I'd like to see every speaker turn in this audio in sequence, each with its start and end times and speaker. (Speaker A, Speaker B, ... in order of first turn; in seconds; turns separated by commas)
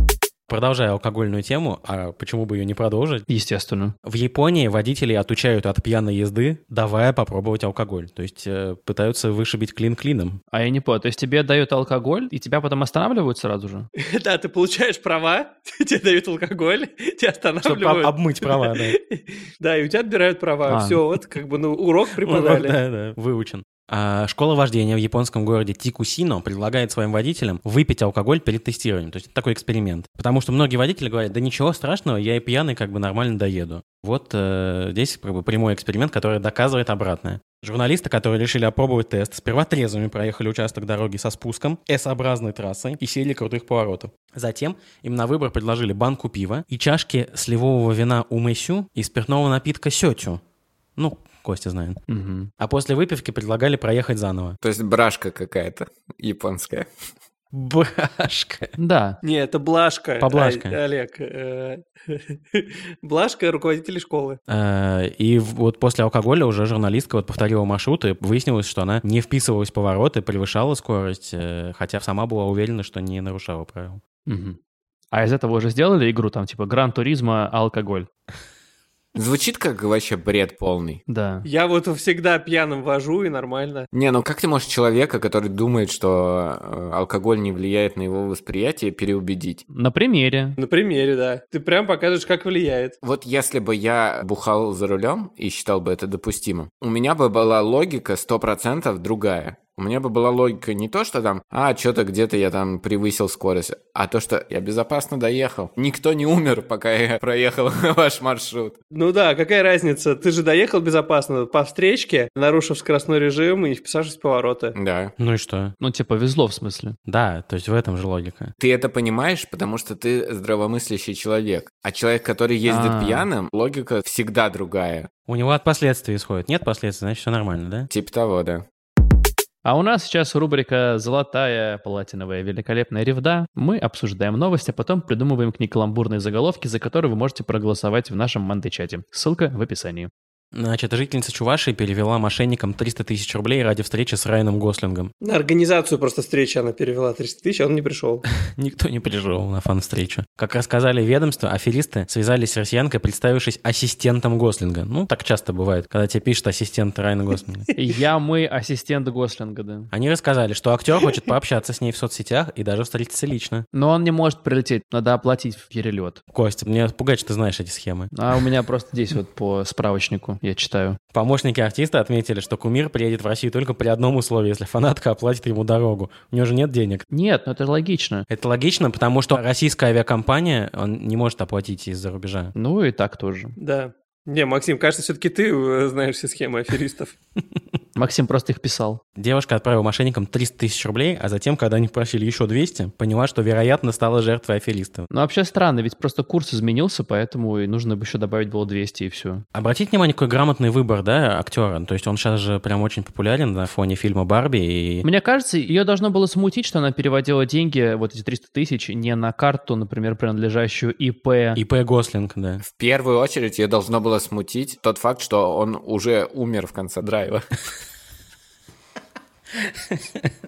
Speaker A: 0.5-3.3, Speaker B: 3.3-4.0, Speaker A: 4.0-10.4, Speaker B: 10.5-13.9, Speaker C: 14.0-22.8, Speaker A: 17.6-19.0, Speaker B: 20.7-21.0, Speaker A: 22.2-50.4, Speaker A: 51.0-52.0, Speaker B: 52.1-52.5, Speaker A: 52.6-54.6, Speaker D: 54.6-56.9, Speaker A: 57.5-58.7, Speaker B: 58.8-59.2, Speaker C: 59.2-64.4, Speaker A: 60.2-60.8, Speaker A: 64.5-74.0, Speaker B: 74.3-74.6, Speaker B: 75.1-78.1, Speaker D: 79.2-81.0, Speaker B: 81.1-81.5, Speaker C: 81.5-83.9, Speaker D: 83.9-89.6, Speaker B: 89.7-90.6, Speaker C: 90.6-93.0, Speaker D: 93.0-108.8, Speaker C: 108.9-114.8, Speaker D: 114.8-115.1, Speaker A: 115.2-115.8, Speaker B: 115.8-117.0, Speaker A: 117.1-118.5, Speaker D: 118.6-125.1, Speaker B: 122.7-123.3, Speaker A: 125.3-127.9, Speaker D: 127.9-128.6, Speaker B: 129.7-140.1, Speaker A: 140.5-145.1, Speaker C: 145.2-148.2, Speaker A: 148.4-157.7, Speaker B: 157.8-159.9, Speaker A: 159.9-163.7, Speaker B: 163.7-166.2, Speaker A: 166.3-168.1, Speaker B: 168.1-171.0, Speaker A: 171.1-177.1, Speaker B: 177.1-178.3, Speaker A: 178.3-182.5, Speaker B: 182.6-183.6, Speaker C: 183.6-187.2, Speaker B: 188.0-189.0, Speaker A: 189.2-195.1, Speaker B: 195.1-199.4, Speaker A: 199.5-205.1, Speaker B: 205.0-211.6, Speaker A: 211.6-212.6, Speaker D: 212.6-217.5, Speaker A: 219.6-220.3